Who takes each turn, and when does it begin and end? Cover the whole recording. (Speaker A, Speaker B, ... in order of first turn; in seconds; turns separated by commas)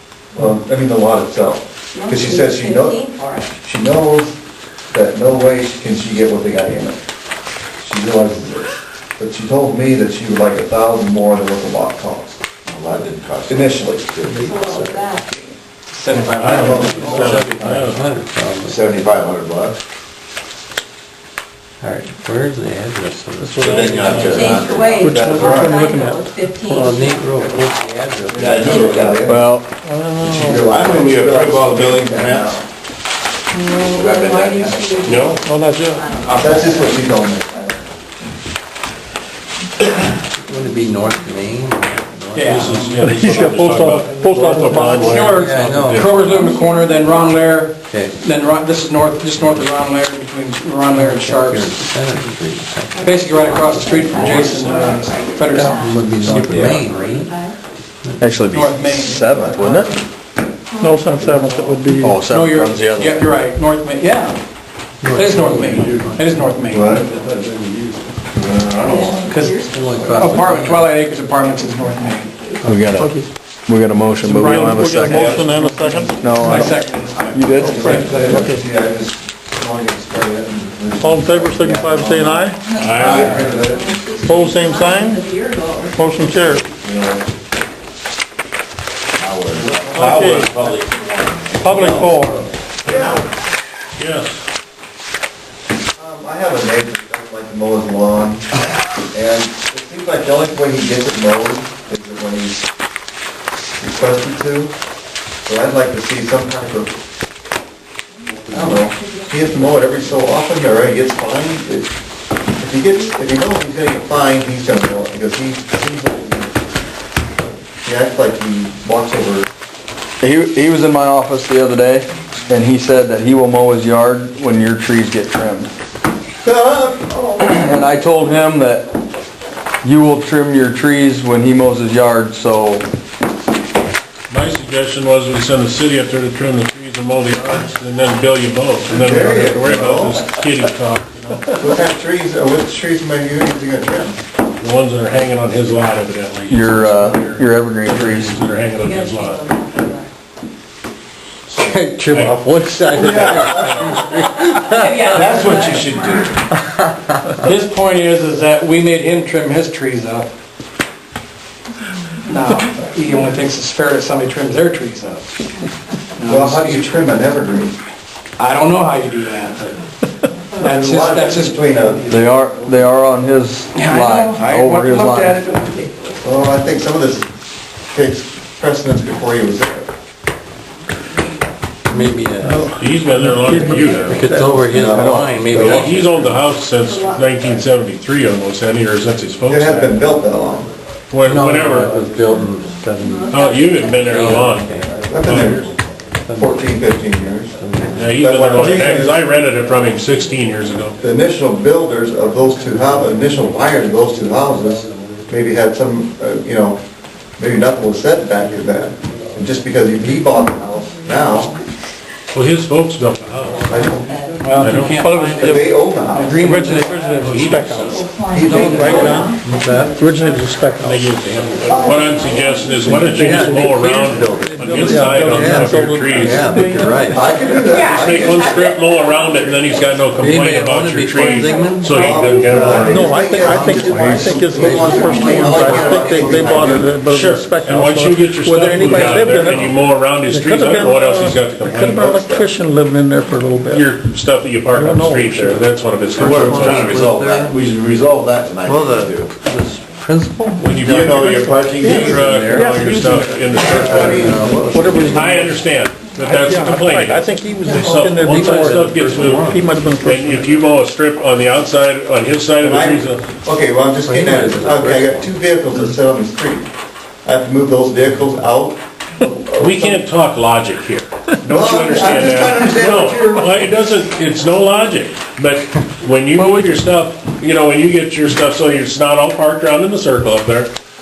Speaker A: 0.3-3.1, Speaker B: 1.9-3.5, Speaker A: 3.6-4.3, Speaker A: 4.9-7.0, Speaker A: 7.8-12.4, Speaker C: 12.7-14.8, Speaker A: 13.4-15.6, Speaker B: 14.4-15.3, Speaker D: 15.9-17.1, Speaker E: 16.2-18.0, Speaker A: 16.4-17.5, Speaker F: 16.4-18.8, Speaker C: 17.5-17.9, Speaker C: 18.6-19.8, Speaker F: 21.8-24.4, Speaker G: 23.4-27.1, Speaker C: 23.6-25.0, Speaker B: 24.1-27.5, Speaker A: 25.0-25.8, Speaker F: 26.7-29.0, Speaker A: 28.3-29.5, Speaker C: 28.3-29.2, Speaker H: 29.2-29.7, Speaker G: 29.8-30.8, Speaker A: 30.2-32.6, Speaker C: 30.5-32.6, Speaker B: 33.5-37.2, Speaker C: 33.8-35.4, Speaker E: 35.1-35.3, Speaker G: 35.4-36.1, Speaker A: 36.3-37.5, Speaker F: 40.3-43.1, Speaker D: 42.3-43.0, Speaker E: 42.4-46.5, Speaker G: 43.0-45.5, Speaker D: 45.0-51.8, Speaker F: 45.4-46.5, Speaker B: 46.3-47.6, Speaker F: 47.8-48.2, Speaker F: 49.4-49.7, Speaker F: 50.9-54.6, Speaker B: 52.9-57.6, Speaker D: 53.0-56.8, Speaker E: 54.3-54.7, Speaker F: 55.7-57.3, Speaker H: 58.2-59.9, Speaker D: 58.5-59.9, Speaker B: 60.7-61.2, Speaker G: 60.8-62.2, Speaker D: 61.2-64.4, Speaker H: 62.0-63.2, Speaker F: 65.0-66.2, Speaker D: 65.1-67.1, Speaker A: 66.7-67.1, Speaker C: 66.9-67.9, Speaker A: 68.3-69.3, Speaker B: 68.8-70.4, Speaker D: 69.2-72.3, Speaker F: 69.6-70.9, Speaker B: 71.5-72.6, Speaker H: 72.6-75.3, Speaker G: 73.0-73.3, Speaker D: 74.2-78.4, Speaker G: 74.3-76.8, Speaker H: 76.1-76.8, Speaker H: 77.3-78.1, Speaker C: 77.4-77.9, Speaker G: 77.6-78.7, Speaker A: 77.6-84.0, Speaker G: 81.0-82.6, Speaker B: 82.7-86.0, Speaker E: 82.7-83.3, Speaker C: 82.9-83.7, Speaker G: 84.2-85.2, Speaker G: 85.9-86.7, Speaker A: 86.6-87.2, Speaker C: 89.2-90.9, Speaker A: 89.5-90.3, Speaker G: 89.9-90.7, Speaker B: 90.8-91.5, Speaker G: 91.6-92.5, Speaker A: 91.6-92.3, Speaker A: 92.8-93.2, Speaker E: 94.0-94.4, Speaker A: 96.0-98.5, Speaker A: 99.1-102.7, Speaker A: 103.8-104.7, Speaker A: 105.5-106.9, Speaker B: 108.3-110.1, Speaker A: 108.5-111.9, Speaker A: 112.6-116.6, Speaker A: 117.7-119.5, Speaker H: 120.2-125.7, Speaker A: 126.4-127.6, Speaker H: 127.4-128.9, Speaker H: 129.8-132.8, Speaker E: 134.3-141.6, Speaker A: 138.9-140.3, Speaker A: 141.5-144.2, Speaker E: 144.6-149.4, Speaker H: 146.5-148.4, Speaker B: 148.8-150.1, Speaker F: 151.5-155.2, Speaker E: 151.6-152.4, Speaker A: 152.9-154.0, Speaker B: 154.3-156.3, Speaker C: 155.0-156.4, Speaker D: 157.4-160.3, Speaker D: 162.3-165.3, Speaker D: 166.2-167.0, Speaker A: 166.2-167.8, Speaker D: 168.4-169.8, Speaker D: 170.6-172.0, Speaker A: 170.6-172.2, Speaker H: 172.1-175.4, Speaker D: 173.7-175.9, Speaker B: 175.6-176.2, Speaker A: 176.2-177.3, Speaker A: 177.9-179.9, Speaker B: 179.0-179.4, Speaker B: 180.8-181.4, Speaker F: 181.9-182.8, Speaker G: 182.4-184.7, Speaker E: 182.8-184.3, Speaker B: 183.1-184.3, Speaker F: 184.0-186.4, Speaker A: 184.7-186.0, Speaker E: 185.5-190.1, Speaker B: 186.8-187.6, Speaker A: 189.4-190.7, Speaker E: 191.1-192.0, Speaker F: 191.2-193.3, Speaker B: 191.8-194.9, Speaker E: 193.3-195.7, Speaker F: 194.0-194.9, Speaker A: 195.1-195.8, Speaker F: 196.2-196.8, Speaker A: 196.3-197.5, Speaker F: 197.5-198.2, Speaker E: 197.9-201.0, Speaker A: 198.2-199.3, Speaker B: 199.5-200.6, Speaker A: 201.0-206.8, Speaker B: 202.8-204.9, Speaker A: 207.4-211.6, Speaker B: 208.7-209.5, Speaker B: 210.3-211.6, Speaker E: 212.3-213.9, Speaker B: 213.3-214.6, Speaker A: 213.7-214.1, Speaker D: 214.4-217.5, Speaker F: 214.6-215.5, Speaker E: 214.6-215.0, Speaker G: 214.9-215.6, Speaker A: 215.3-216.4, Speaker G: 216.3-221.0, Speaker E: 217.2-218.0, Speaker B: 217.7-221.1, Speaker A: 218.3-219.2, Speaker F: 218.5-220.0, Speaker E: 220.8-226.7, Speaker F: 220.8-221.9, Speaker B: 221.6-222.9, Speaker G: 222.8-223.8, Speaker F: 222.9-227.4, Speaker B: 223.8-224.4, Speaker G: 224.6-227.2, Speaker A: 227.0-228.7, Speaker B: 227.6-230.2, Speaker E: 227.7-233.1, Speaker F: 230.2-232.1, Speaker B: 231.1-232.7, Speaker A: 231.9-237.0, Speaker G: 232.7-243.9, Speaker B: 234.3-236.6, Speaker E: 237.0-242.1, Speaker A: 241.8-242.5, Speaker E: 243.7-247.1, Speaker G: 244.7-245.7, Speaker F: 246.1-247.6, Speaker C: 246.2-249.3, Speaker G: 246.3-246.8, Speaker F: 248.6-250.7, Speaker E: 250.6-254.4, Speaker C: 250.8-252.6, Speaker G: 251.2-255.5, Speaker F: 251.8-255.5, Speaker A: 253.6-255.3, Speaker C: 253.7-254.1, Speaker E: 255.0-263.3, Speaker G: 256.2-260.5, Speaker B: 257.6-258.0, Speaker F: 258.2-259.9, Speaker A: 262.6-266.7, Speaker F: 264.0-265.3, Speaker A: 267.2-270.0, Speaker E: 269.6-280.7, Speaker A: 271.4-273.7